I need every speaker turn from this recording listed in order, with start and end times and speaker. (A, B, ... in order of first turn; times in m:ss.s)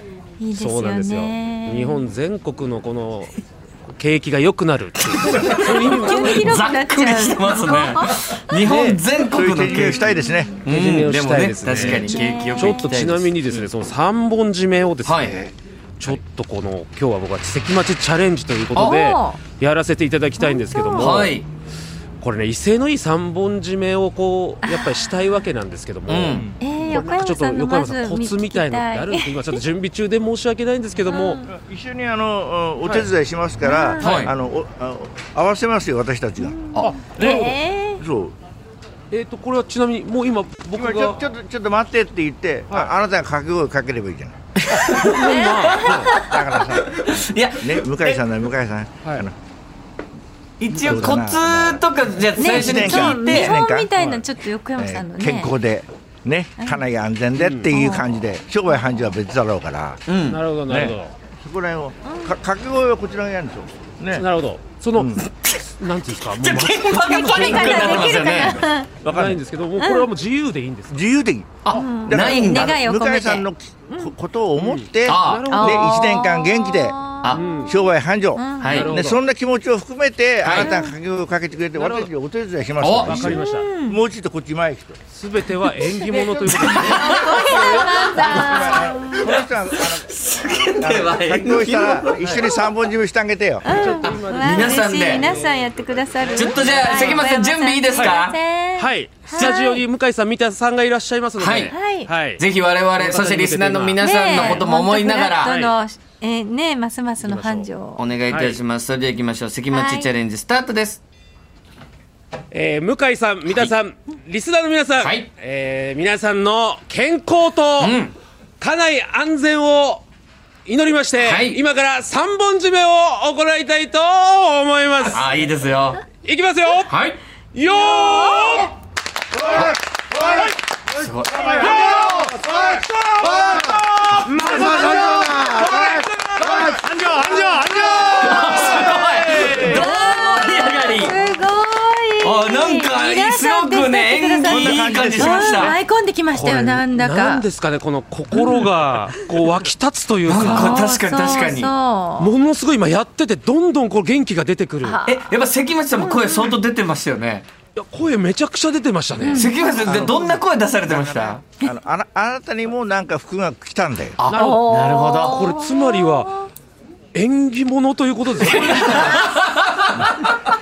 0:00.4-0:02.0 A
0:00.5-0:03.4 B
0:03.9-0:06.5 B
0:05.2-0:10.1 C
0:05.4-0:08.7 A
0:08.6-0:09.0 B
0:09.3-0:10.6 D
0:09.8-0:10.6 A
0:10.6-0:13.7 C
0:10.6-0:15.3 B
0:11.8-0:13.0 A
0:15.0-0:15.5 C
0:16.0-0:21.4 B
0:18.8-0:19.4 A
0:20.4-0:21.3 A
0:21.0-0:21.5 C
0:22.2-0:31.4 B
0:24.6-0:25.3 A
0:26.1-0:26.5 C
0:26.3-0:26.6 D
0:26.6-0:29.6 A
0:31.1-0:31.5 A
0:31.5-0:36.6 D
0:32.8-0:33.1 B
0:33.6-0:34.3 A
0:34.0-0:34.3 C
0:36.4-0:38.0 A
0:36.7-0:37.5 C
0:36.8-0:37.6 B
0:38.0-0:38.4 D
0:39.1-0:41.2 B
0:40.8-0:44.4 D
0:44.6-0:46.2 C
0:44.8-0:46.1 B
0:45.2-0:46.3 A
0:46.2-0:49.4 D
0:46.7-0:48.2 C
0:50.6-0:53.5 C
0:50.7-0:53.9 D
0:52.4-0:55.5 A
0:54.0-0:54.2 B
0:54.8-1:00.0 D
0:56.6-0:56.8 A
0:57.4-0:57.7 B
0:57.7-0:58.1 A
1:00.1-1:00.4 C
1:00.3-1:01.1 B
1:00.7-1:04.2 D
1:02.0-1:02.3 A
1:04.1-1:05.3 B
1:05.0-1:05.2 D
1:05.8-1:08.4 B
1:06.2-1:08.6 C
1:07.0-1:08.9 A
1:09.0-1:09.4 D
1:09.1-1:11.0 B
1:09.8-1:10.1 A
1:10.9-1:17.0 D
1:11.6-1:12.8 C
1:11.7-1:14.1 A
1:14.6-1:16.2 B
1:15.1-1:15.5 C
1:15.5-1:17.7 A
1:17.4-1:17.8 B
1:17.7-1:25.0 D
1:18.3-1:18.9 A
1:18.6-1:18.9 C
1:18.7-1:19.2 B
1:20.4-1:20.8 C
1:20.6-1:20.9 A
1:21.7-1:22.1 B
1:22.8-1:23.3 C
1:23.0-1:23.7 B
1:23.2-1:24.0 A
1:25.1-1:28.5 B
1:25.8-1:29.3 A
1:26.6-1:32.4 C
1:28.2-1:33.8 D
1:33.6-1:39.8 A
1:33.6-1:37.3 B
1:34.0-1:35.3 C
1:36.4-1:38.4 C
1:37.9-1:38.2 B
1:38.8-1:44.6 B
1:41.4-1:41.8 C
1:41.7-1:42.1 A
1:42.3-1:45.6 C
1:44.0-1:48.0 A
1:45.4-1:45.7 B
1:47.2-1:47.7 B
1:48.0-1:51.0 C
1:48.3-1:48.6 B
1:49.7-1:50.1 A
1:52.5-1:58.0 B
1:53.5-1:53.7 C
1:55.0-1:55.3 C
1:57.8-1:58.1 C
1:58.6-2:00.0 B
2:00.6-2:05.3 B
2:01.2-2:01.6 C
2:05.1-2:06.0 C
2:06.2-2:07.0 B
2:06.9-2:07.2 C
2:07.5-2:08.7 B
2:07.9-2:08.6 A
2:09.4-2:15.0 C
2:11.3-2:12.2 B
2:13.4-2:13.8 D
2:14.1-2:19.9 B
2:14.5-2:16.0 D
2:15.7-2:16.8 C
2:17.2-2:18.5 D
2:17.8-2:21.2 C
2:19.4-2:19.7 D
2:19.5-2:27.4 A
2:22.2-2:25.8 C
2:24.4-2:25.6 D
2:26.3-2:30.9 B
2:28.3-2:28.7 C
2:30.2-2:31.7 C
2:30.4-2:32.3 A
2:32.2-2:35.0 B
2:34.8-2:35.3 A
2:35.0-2:37.5 C
2:35.9-2:36.6 A
2:37.8-2:39.5 B
2:39.2-2:39.8 A
2:39.3-2:41.4 C
2:39.8-2:44.2 D
2:44.2-2:45.5 C
2:44.3-2:44.7 B
2:44.3-2:46.5 A
2:45.2-2:46.3 B
2:47.2-2:49.4 B
2:48.4-2:50.3 C